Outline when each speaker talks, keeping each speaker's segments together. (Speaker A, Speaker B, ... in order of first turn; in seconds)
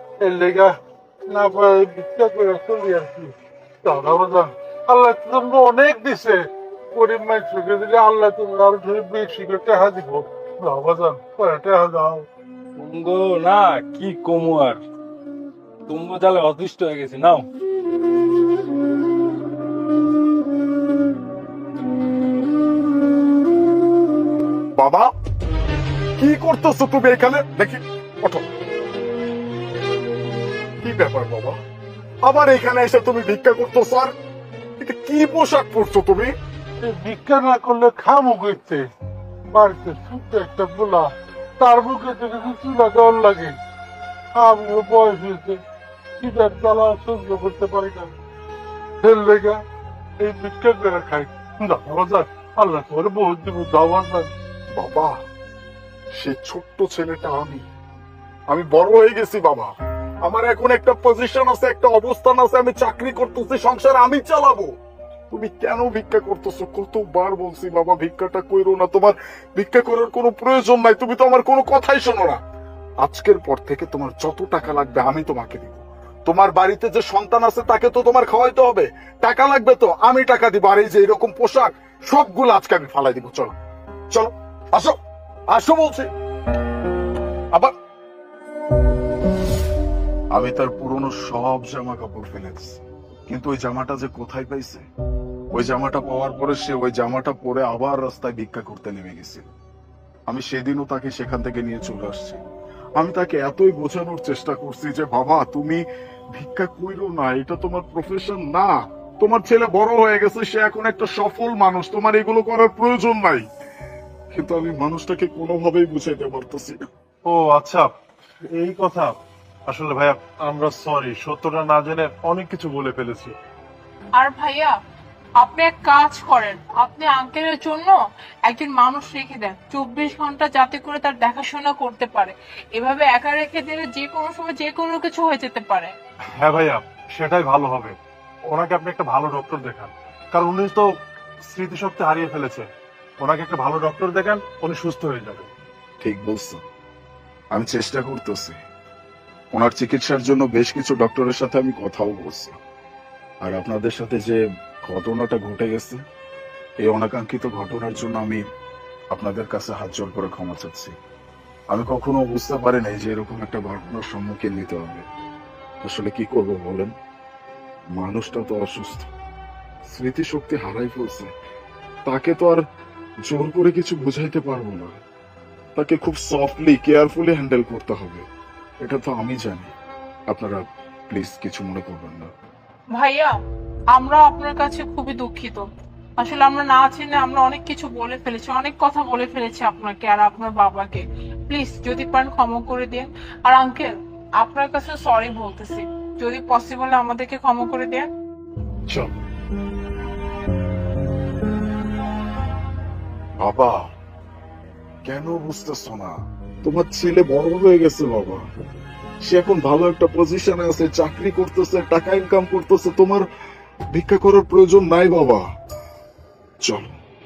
Speaker A: 0.2-12.3, 36.8-38.9, 39.5-43.6, 44.3-45.6, 46.2-48.1, 49.0-49.6, 50.2-54.3
Speaker B: 12.8-14.8, 15.9-17.4
Speaker C: 24.8-25.1, 26.2-28.4, 30.8-31.6, 32.2-34.1, 34.8-36.3, 54.7-55.2, 56.1-57.6, 58.5-59.7, 60.2-64.7, 65.3-72.4, 73.0-83.5, 84.1-85.0, 85.5-86.1, 90.3-94.8, 95.5-99.5, 100.3-102.4, 103.0-113.4, 114.3-116.8, 146.0-146.6, 147.5-148.6, 149.5-152.6, 153.4-156.0, 156.8-158.4, 159.1-160.9, 161.7-165.1, 165.8-166.9, 167.9-169.1, 169.9-171.3, 172.1-172.6, 173.2-174.9, 175.8-178.2, 178.8-179.7, 180.3-182.3, 203.4-203.9, 205.0-208.4, 209.2-213.2, 213.9-215.4, 216.6-216.9
Speaker D: 117.2-117.9, 118.5-123.3, 136.3-140.9, 141.4-145.5
Speaker E: 124.2-124.7, 125.4-127.9, 128.4-135.9, 182.9-183.3, 183.9-185.6, 186.2-198.1